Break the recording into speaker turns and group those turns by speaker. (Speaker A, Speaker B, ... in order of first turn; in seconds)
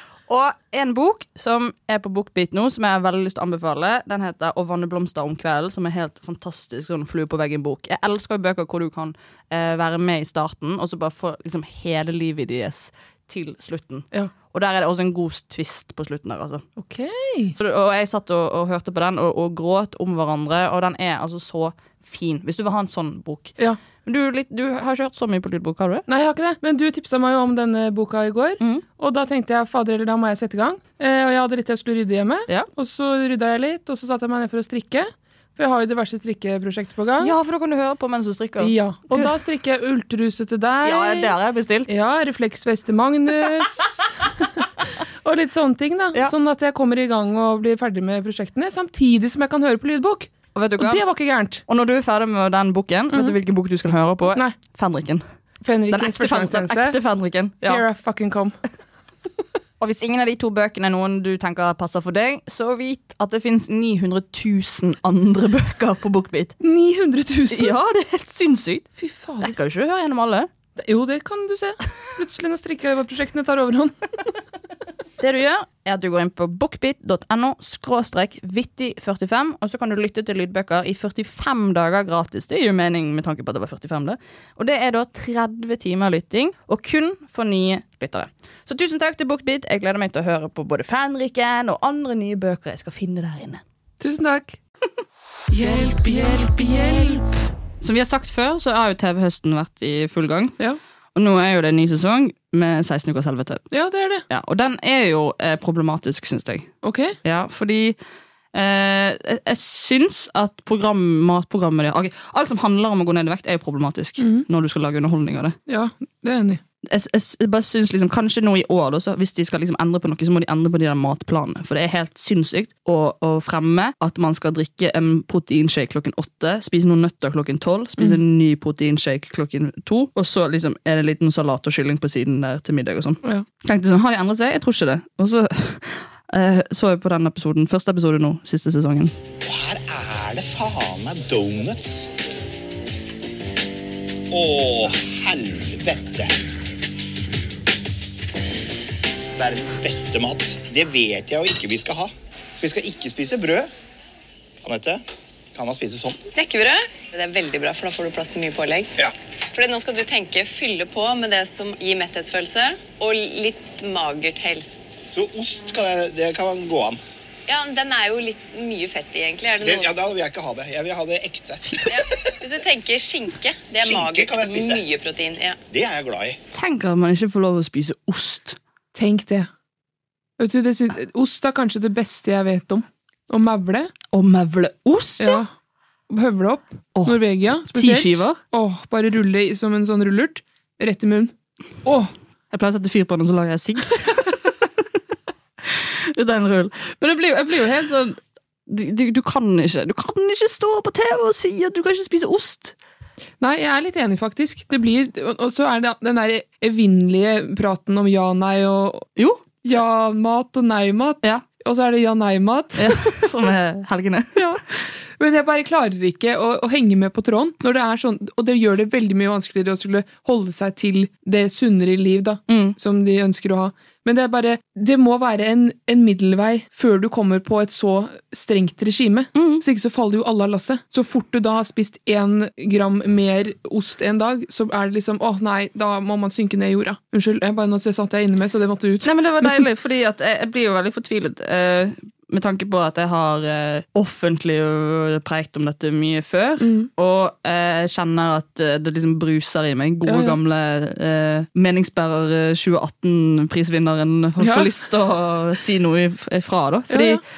Speaker A: 0.3-16.6, 17.6-26.0, 37.2-39.3, 40.8-41.9, 50.5-51.0, 51.7-55.2, 55.9-57.8, 59.8-66.6, 67.5-70.5, 75.2-93.6, 97.8-100.6, 101.1-103.6, 104.3-106.7, 107.2-108.0, 108.5-115.5, 116.8-139.1, 176.5-178.6, 184.1-185.4, 186.9-188.4, 192.5-194.7, 195.6-202.7, 209.2-209.4, 212.8-214.4, 222.5-222.8, 229.3-229.6, 239.0-257.2
Speaker B: 16.8-17.5, 26.1-37.3, 38.6-41.3, 41.9-44.6, 45.2-51.6, 55.6-57.0, 57.6-58.5, 66.6-67.7, 69.0-69.5, 70.8-74.3, 94.0-94.6, 95.5-97.2, 103.7-104.2, 106.8-107.2, 114.2-114.4, 115.7-116.6, 178.9-179.5, 180.4-183.9, 185.2-185.5, 186.1-192.1, 203.4-209.1, 209.6-213.1, 214.3-214.6, 215.2-239.6, 246.6-246.9, 250.1-250.4, 254.4-254.7, 256.9-257.2
Speaker C: 139.4-142.1, 144.3-146.3, 149.4-153.7, 154.6-155.0, 155.5-156.2, 165.1-167.0, 169.6-172.0, 173.8-174.8, 175.7-176.4
Speaker D: 156.3-158.9, 159.5-164.8, 167.5-170.0, 171.9-175.6